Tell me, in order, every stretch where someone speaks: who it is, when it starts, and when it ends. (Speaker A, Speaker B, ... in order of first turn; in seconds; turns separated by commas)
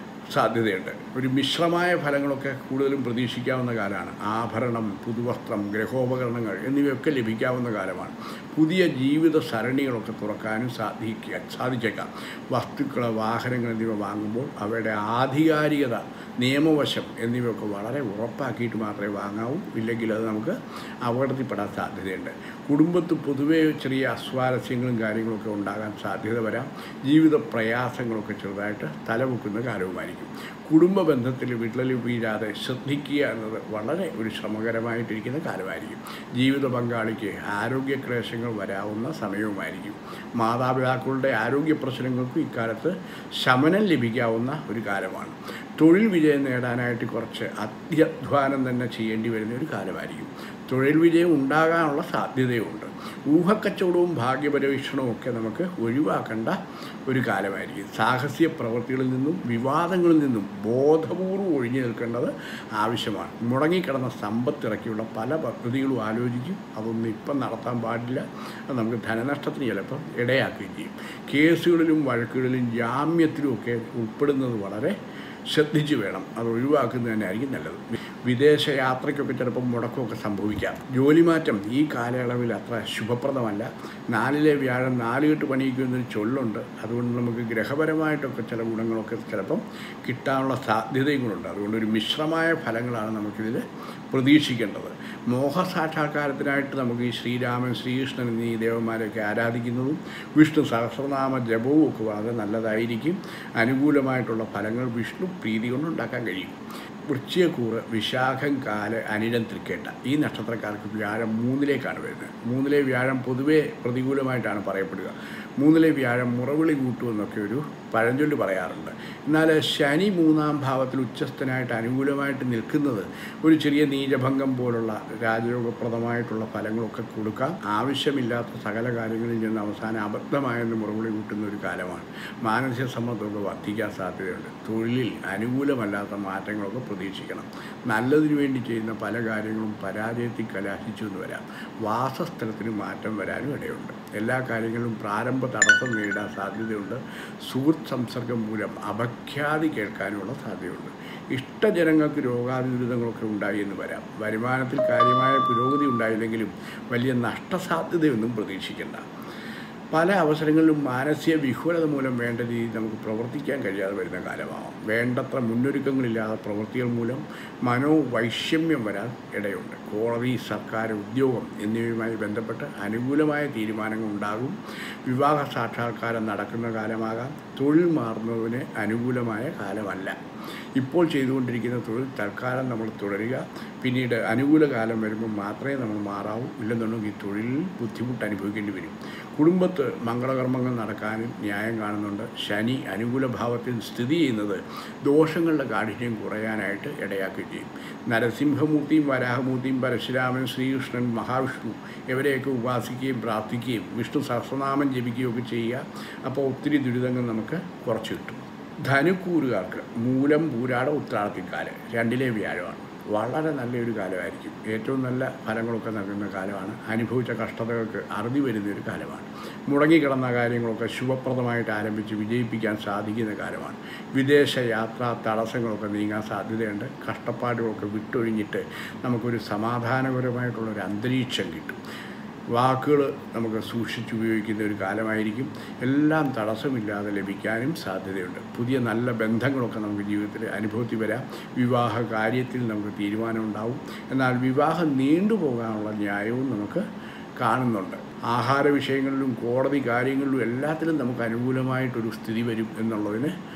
Speaker A: 0.3-74.9, Speaker A: 75.5-106.5, Speaker A: 107.1-159.1, Speaker A: 159.9-180.2, Speaker A: 180.8-231.8, Speaker A: 232.5-246.8, Speaker A: 247.4-253.3